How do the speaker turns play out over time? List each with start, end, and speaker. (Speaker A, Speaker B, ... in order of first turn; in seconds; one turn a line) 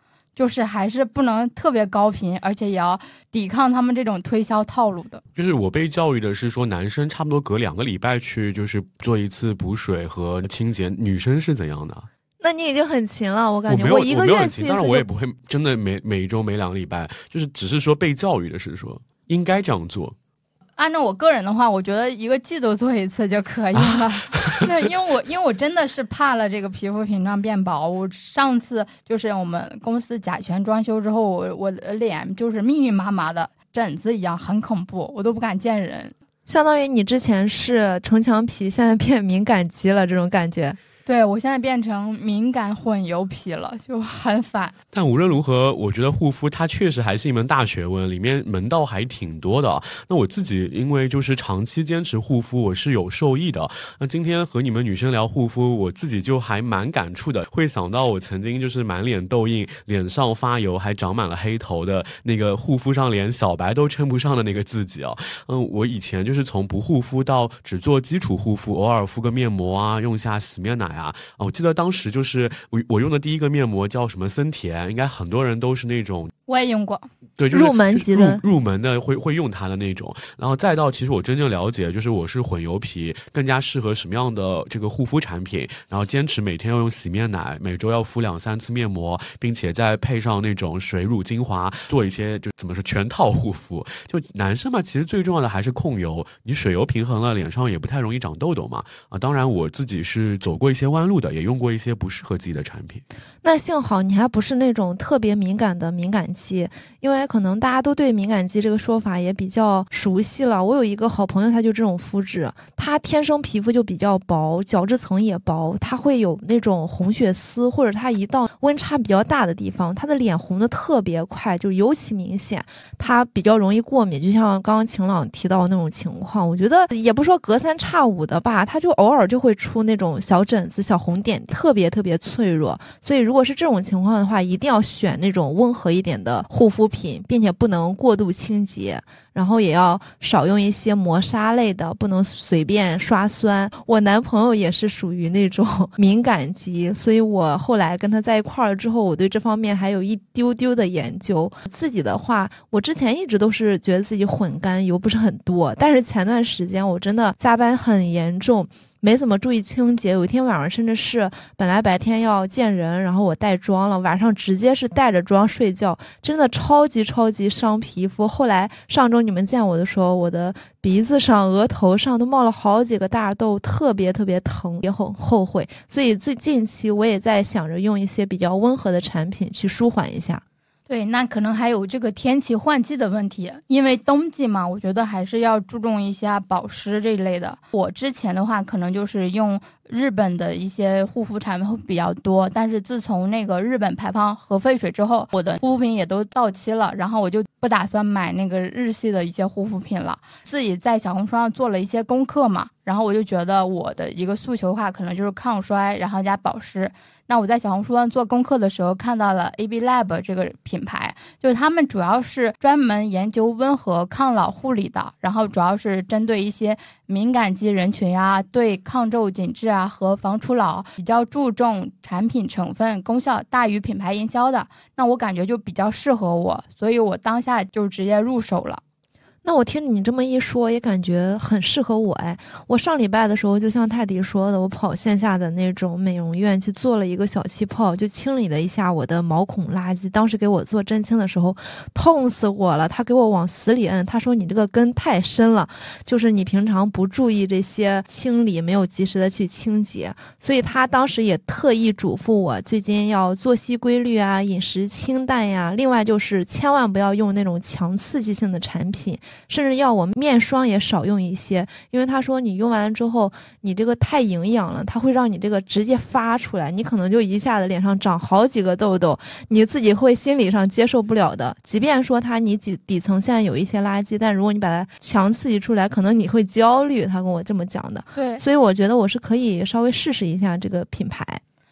Speaker A: 0.4-5.2
Speaker B: 5.4-12.1
Speaker C: 12.4-15.1
Speaker B: 13.7-20.2
Speaker A: 20.8-36.1
Speaker B: 23.8-24.6
Speaker C: 36.5-40.8
Speaker A: 41.1-44.8
Speaker B: 44.9-76.3
Speaker A: 76.5-77.1
Speaker B: 77.4-103.0
Speaker C: 77.5-78.4
Speaker C: 103.4-180.4
Speaker A: 180.9-228.8
Speaker C: 229.4-281.4
Speaker A: 278.1-278.4